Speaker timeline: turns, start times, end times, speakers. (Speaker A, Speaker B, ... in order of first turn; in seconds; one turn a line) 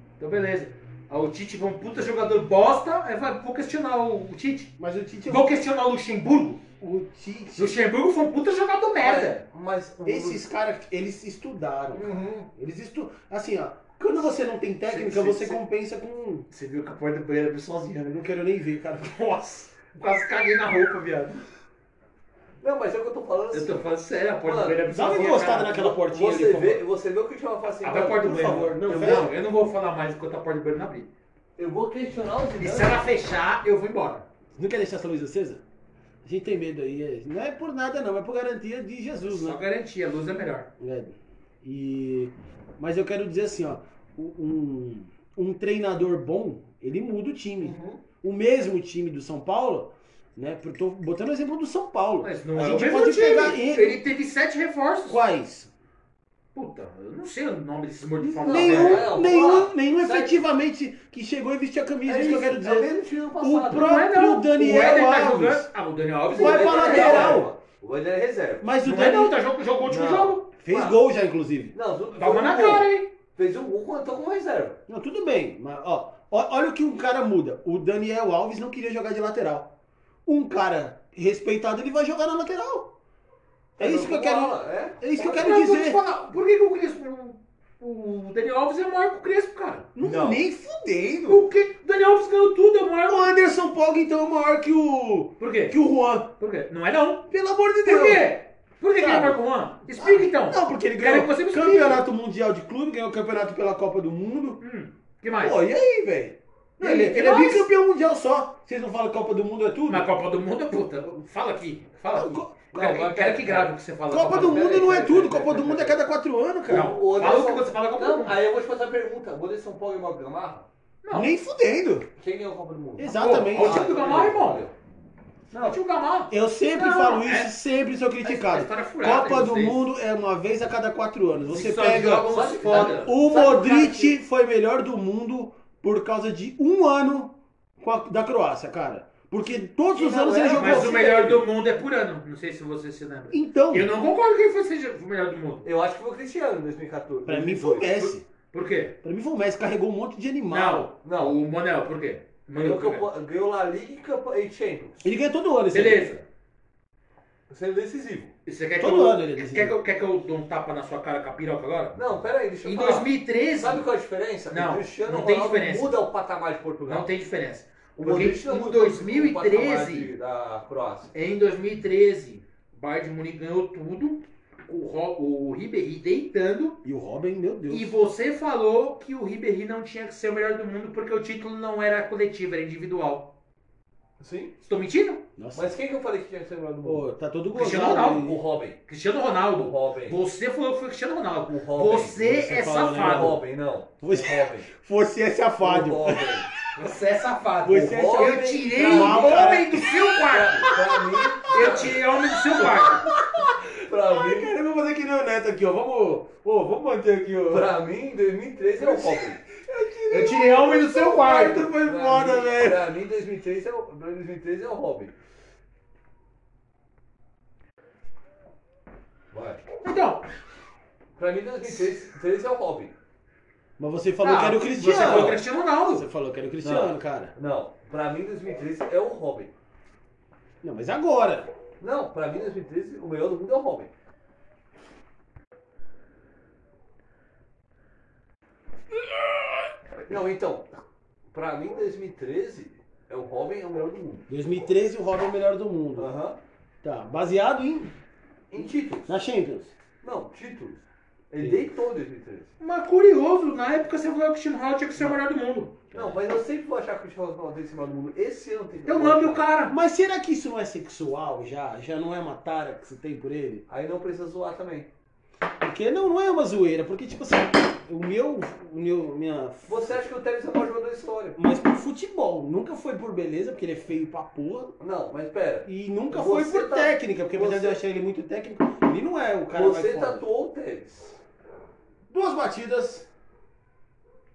Speaker A: 0.2-4.7
Speaker B: 4.8-5.6
Speaker A: 5.3-6.6
Speaker B: 6.8-7.8
Speaker A: 7.6-9.4
Speaker C: 9.0-10.4
Speaker B: 10.1-16.5
Speaker C: 11.9-12.5
Speaker A: 14.9-15.6
Speaker A: 16.5-18.1
Speaker B: 18.0-19.2
Speaker A: 19.0-21.4
Speaker C: 22.6-23.9
Speaker A: 23.5-25.9
Speaker C: 24.4-29.3
Speaker B: 24.9-26.8
Speaker A: 27.8-31.1
Speaker B: 28.3-29.3
Speaker C: 31.6-33.0
Speaker A: 32.6-34.2
Speaker B: 34.5-35.6
Speaker B: 36.2-39.6
Speaker A: 39.3-40.7
Speaker B: 40.8-54.0
Speaker C: 47.6-48.0
Speaker A: 52.2-55.2
Speaker B: 55.1-55.7
Speaker A: 56.5-59.1
Speaker C: 58.2-60.4
Speaker B: 58.5-65.7
Speaker C: 62.0-63.9
Speaker A: 63.7-67.4
Speaker C: 66.3-68.7
Speaker B: 66.3-67.5
Speaker B: 68.6-69.4
Speaker A: 68.8-70.5
Speaker C: 69.9-71.0
Speaker B: 70.6-71.7
Speaker C: 71.7-74.8
Speaker A: 72.2-73.1
Speaker B: 74.9-79.7
Speaker B: 80.3-82.9
Speaker C: 83.8-85.0
Speaker B: 83.8-86.0
Speaker A: 85.2-89.9
Speaker B: 90.0-91.4
Speaker C: 90.0-90.4
Speaker A: 91.3-93.3
Speaker B: 93.0-96.3
Speaker A: 95.4-95.8
Speaker A: 96.4-97.3
Speaker B: 97.3-98.3
Speaker A: 97.8-102.0
Speaker B: 99.0-99.4
Speaker B: 99.9-104.6
Speaker A: 104.6-105.6
Speaker B: 105.4-110.1
Speaker A: 106.8-107.7
Speaker A: 109.9-114.8
Speaker B: 112.1-112.5
Speaker C: 112.7-116.0
Speaker B: 114.1-116.9
Speaker A: 116.7-118.4
Speaker C: 116.7-120.7
Speaker A: 121.0-121.3
Speaker B: 121.1-122.1
Speaker C: 122.2-124.7
Speaker B: 123.0-123.9
Speaker A: 123.1-124.7
Speaker C: 125.5-125.8
Speaker A: 125.6-127.5
Speaker B: 126.3-141.3
Speaker A: 128.2-129.8
Speaker A: 131.5-133.6
Speaker C: 132.3-134.1
Speaker C: 139.9-141.4
Speaker A: 140.5-145.7
Speaker B: 143.3-143.9
Speaker C: 145.6-148.1
Speaker B: 147.3-148.3
Speaker A: 148.5-148.9
Speaker B: 149.0-150.9
Speaker A: 150.5-153.1
Speaker C: 151.0-151.4
Speaker C: 152.5-155.1
Speaker B: 155.0-156.2
Speaker A: 155.7-156.2
Speaker C: 157.5-158.3
Speaker A: 158.5-162.0
Speaker B: 158.8-159.8
Speaker C: 161.9-167.1
Speaker A: 162.6-163.9
Speaker A: 164.5-166.0
Speaker A: 166.9-170.1
Speaker C: 168.0-171.1
Speaker A: 171.1-176.8
Speaker B: 176.8-177.9
Speaker A: 177.7-183.3
Speaker C: 184.2-184.6
Speaker A: 184.7-185.2
Speaker B: 185.4-185.7
Speaker C: 185.5-187.1
Speaker B: 186.8-188.4
Speaker A: 187.5-193.4
Speaker C: 187.9-188.8
Speaker C: 189.6-190.2
Speaker C: 191.5-192.3
Speaker B: 192.2-193.4
Speaker C: 192.9-194.7
Speaker B: 194.0-196.5
Speaker C: 195.6-196.5
Speaker A: 196.7-200.7
Speaker B: 197.6-207.7
Speaker C: 197.7-199.6
Speaker C: 200.2-202.0
Speaker A: 201.5-203.1
Speaker C: 203.7-204.6
Speaker C: 207.5-209.4
Speaker B: 208.8-212.9
Speaker A: 210.1-211.7
Speaker C: 211.7-215.1
Speaker C: 219.3-219.7
Speaker A: 219.8-220.3
Speaker C: 221.2-223.0
Speaker B: 223.8-227.3
Speaker A: 224.2-226.1
Speaker C: 226.6-229.5
Speaker B: 230.6-231.5
Speaker C: 231.8-233.9
Speaker C: 240.1-240.7
Speaker C: 241.3-244.3
Speaker B: 244.3-246.1
Speaker C: 246.0-246.4
Speaker B: 246.8-247.9
Speaker C: 248.5-249.1
Speaker B: 249.1-249.7
Speaker C: 250.0-252.5
Speaker B: 251.4-251.7
Speaker A: 252.6-255.8
Speaker B: 255.9-256.2
Speaker C: 255.9-259.5
Speaker A: 258.9-259.8
Speaker B: 259.7-263.6
Speaker C: 263.7-264.9
Speaker B: 265.6-270.0
Speaker C: 269.7-271.4
Speaker B: 271.4-274.8
Speaker C: 274.8-277.8
Speaker B: 275.7-280.2
Speaker C: 279.5-281.2
Speaker B: 282.1-283.1